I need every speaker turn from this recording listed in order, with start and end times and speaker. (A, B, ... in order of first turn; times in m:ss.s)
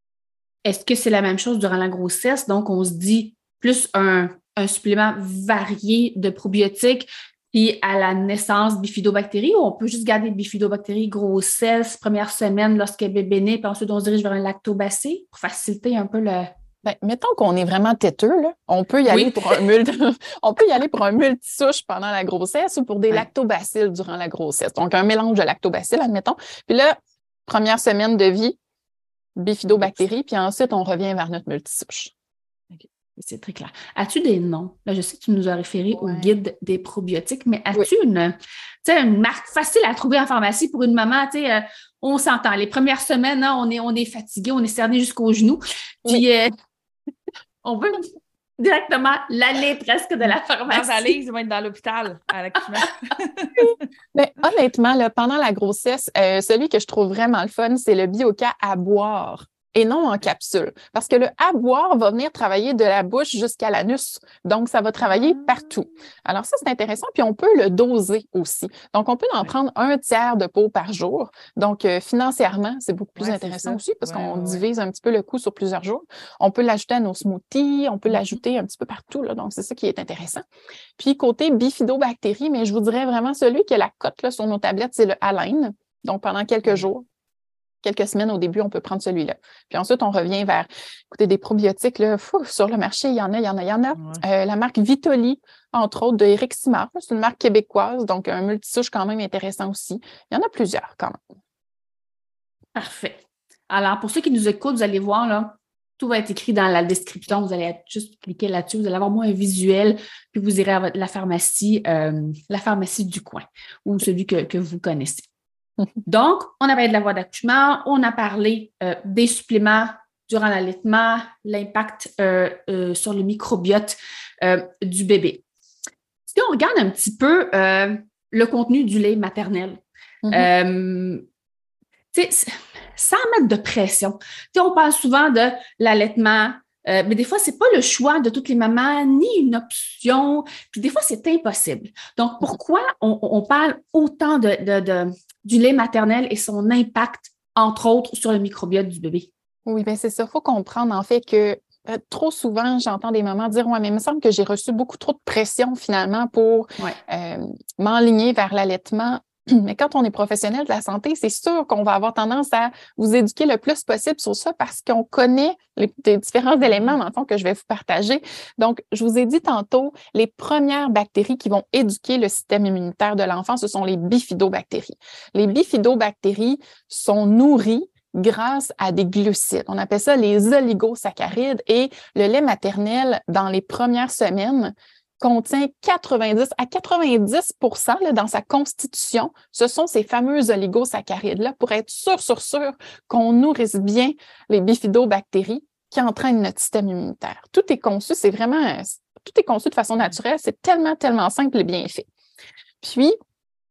0:00.6-0:16.5 A
0:16.8-0:27.0 B
0:19.1-0:19.4 A
0:27.5-0:28.6 B
0:29.4-0:32.1 B
0:33.2-0:46.5 A
0:47.6-0:51.2 A
0:50.7-0:53.7 C
0:54.1-1:20.4 B
1:13.2-1:14.6 C
1:21.0-1:27.0 B
1:27.8-1:41.2 B
1:42.7-1:55.3 A
1:56.0-2:05.4 A
2:06.3-2:11.2 A
2:10.2-2:10.5 B
2:12.1-2:29.3 A
2:29.6-3:22.1 B
3:22.8-3:23.1 B